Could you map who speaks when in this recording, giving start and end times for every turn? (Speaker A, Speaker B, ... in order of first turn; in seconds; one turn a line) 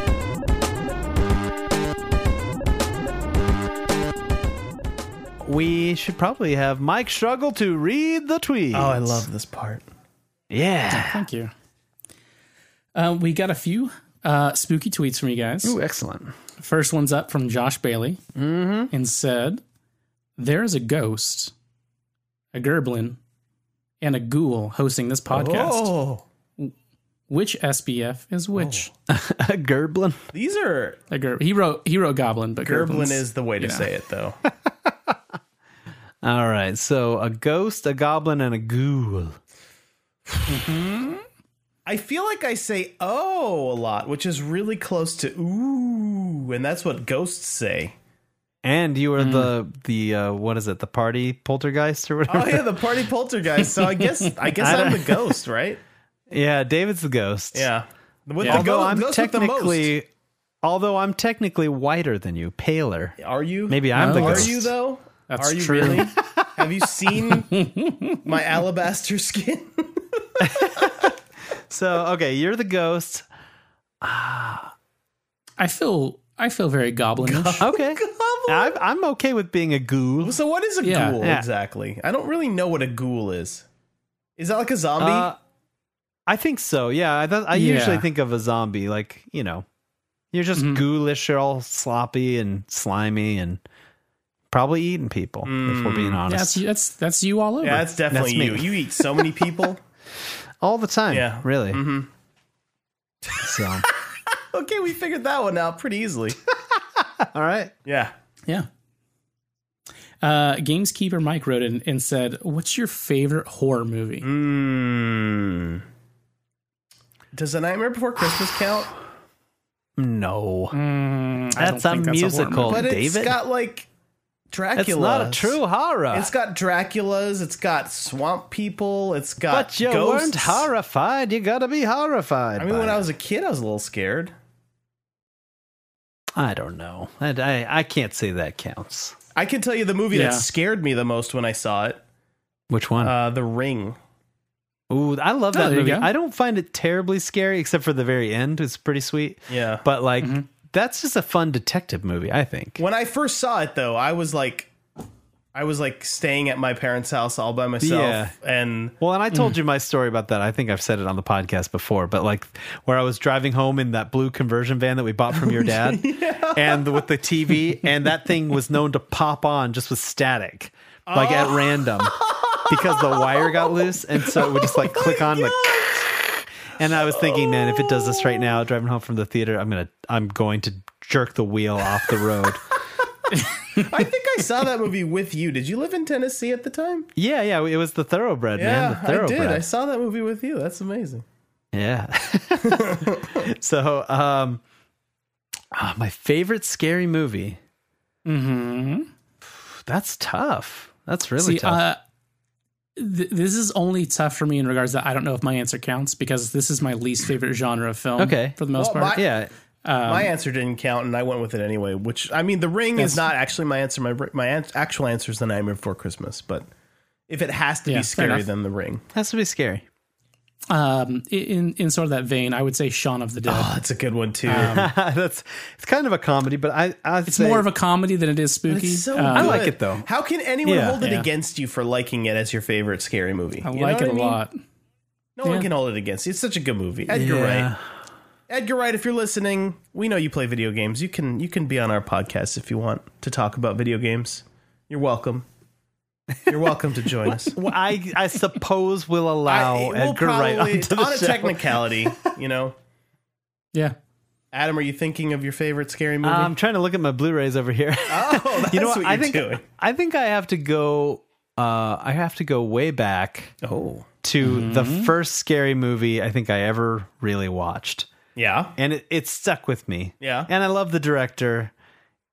Speaker A: 5.4-9.3
Speaker B: 8.7-9.8
Speaker A: 10.5-11.2
Speaker C: 10.9-11.5
Speaker C: 12.9-15.8
Speaker A: 15.6-16.3
Speaker C: 16.6-18.2
Speaker A: 18.4-18.9
Speaker C: 18.9-19.6
Speaker C: 20.4-21.5
Speaker C: 22.5-23.2
Speaker C: 24.0-25.9
Speaker B: 25.3-26.2
Speaker C: 27.3-28.9
Speaker A: 29.1-30.2
Speaker B: 30.3-31.0
Speaker C: 31.1-33.9
Speaker B: 32.6-34.4
Speaker A: 34.9-35.1
Speaker A: 36.2-39.4
Speaker C: 40.5-41.2
Speaker B: 41.9-47.9
Speaker A: 48.6-52.8
Speaker C: 49.2-49.5
Speaker B: 52.3-55.8
Speaker A: 54.6-55.2
Speaker A: 56.3-57.7
Speaker B: 57.5-59.9
Speaker A: 58.4-60.1
Speaker A: 60.6-63.1
Speaker B: 63.2-67.5
Speaker A: 63.7-64.7
Speaker C: 63.9-64.6
Speaker C: 65.3-66.1
Speaker A: 66.2-66.6
Speaker C: 67.5-68.2
Speaker B: 68.2-70.9
Speaker A: 70.4-71.1
Speaker A: 71.7-73.2
Speaker A: 74.0-74.7
Speaker C: 75.6-77.6
Speaker B: 77.2-78.8
Speaker A: 77.6-80.4
Speaker B: 80.2-83.7
Speaker C: 80.8-81.2
Speaker B: 84.4-85.3
Speaker A: 85.0-85.4
Speaker A: 86.3-89.7
Speaker C: 87.5-88.1
Speaker A: 90.3-93.6
Speaker C: 90.6-90.8
Speaker A: 94.5-96.6
Speaker B: 95.4-96.2
Speaker C: 96.3-97.9
Speaker B: 97.6-99.8
Speaker A: 98.1-98.8
Speaker A: 100.6-101.8
Speaker B: 101.1-102.1
Speaker B: 103.2-106.4
Speaker A: 103.4-103.9
Speaker A: 107.0-107.7
Speaker B: 107.9-108.1
Speaker C: 110.2-114.3
Speaker B: 114.2-115.8
Speaker B: 117.3-118.9
Speaker A: 120.0-120.8
Speaker C: 120.7-122.8
Speaker A: 121.6-123.4
Speaker B: 122.7-123.9
Speaker B: 124.5-125.6
Speaker A: 124.8-126.3
Speaker B: 126.1-130.7
Speaker A: 129.5-133.0
Speaker B: 132.6-134.3
Speaker A: 136.4-139.2
Speaker B: 139.3-142.0
Speaker C: 140.1-140.4
Speaker A: 142.7-143.1
Speaker B: 143.0-144.0
Speaker A: 144.9-152.8
Speaker C: 145.5-146.1
Speaker B: 149.5-149.8
Speaker B: 152.8-154.7
Speaker B: 155.5-159.0
Speaker A: 157.8-158.3
Speaker A: 159.0-175.7
Speaker B: 165.3-167.0
Speaker B: 171.1-176.1
Speaker A: 176.8-182.6
Speaker B: 176.9-178.4
Speaker B: 183.7-187.1
Speaker A: 187.2-189.6
Speaker B: 188.6-191.2
Speaker A: 191.7-194.6
Speaker B: 192.6-193.4
Speaker A: 195.7-197.6
Speaker C: 198.2-199.1
Speaker A: 199.8-201.8
Speaker C: 201.4-202.0
Speaker C: 203.0-209.2
Speaker A: 208.2-208.6
Speaker B: 208.7-209.2
Speaker A: 209.1-209.5
Speaker C: 209.8-210.3
Speaker B: 210.0-216.7
Speaker C: 213.0-213.2
Speaker B: 217.3-219.0
Speaker C: 217.9-218.5
Speaker A: 219.1-219.8
Speaker C: 220.7-223.7
Speaker B: 223.5-224.8
Speaker C: 224.5-224.9
Speaker A: 224.5-227.7
Speaker C: 227.3-229.6
Speaker B: 228.7-234.4
Speaker A: 229.3-230.1
Speaker A: 230.6-231.0
Speaker C: 231.0-231.3
Speaker C: 233.6-234.5
Speaker B: 235.4-237.7
Speaker A: 237.1-237.8
Speaker B: 238.5-245.5
Speaker B: 246.5-247.6
Speaker A: 247.3-252.3
Speaker B: 249.5-252.8
Speaker B: 254.5-256.5
Speaker A: 256.2-263.5
Speaker B: 258.1-259.6
Speaker B: 263.6-264.1
Speaker A: 264.2-268.1
Speaker C: 264.4-265.1
Speaker B: 268.4-268.7
Speaker A: 268.8-271.7
Speaker B: 270.2-270.5